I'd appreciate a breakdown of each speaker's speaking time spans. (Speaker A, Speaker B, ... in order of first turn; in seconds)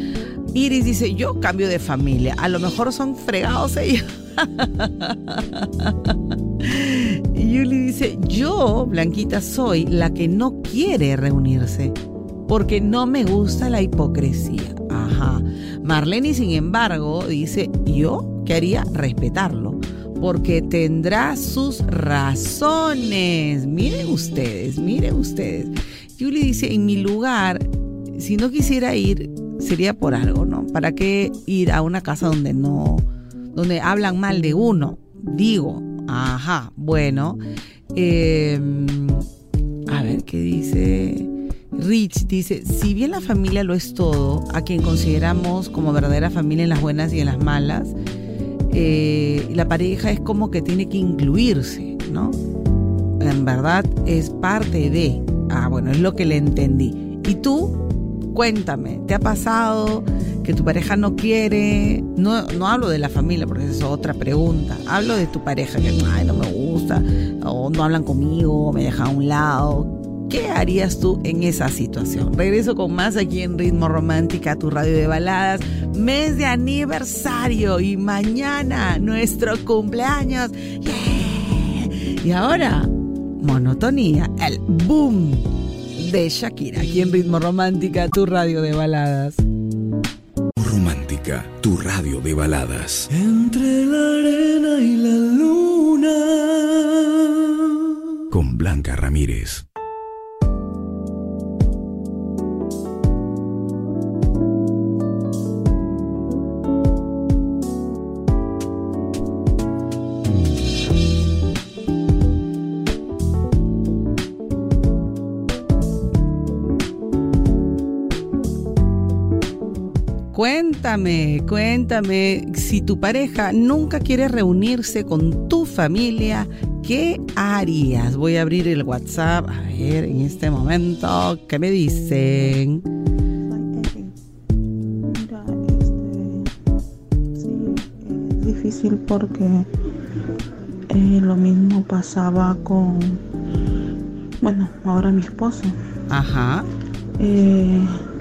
Speaker A: 0.5-12.0, 12.5-37.4, 37.9-39.2, 39.9-47.9, 48.7-52.4, 53.2-57.8, 58.3-89.4, 120.3-132.8, 146.1-146.7
Speaker B: 90.6-93.1, 98.3-99.6
Speaker C: 93.1-97.8
Speaker D: 133.5-134.2, 135.1-136.5, 137.3-139.7, 140.9-143.2, 144.4-145.7, 147.2-147.9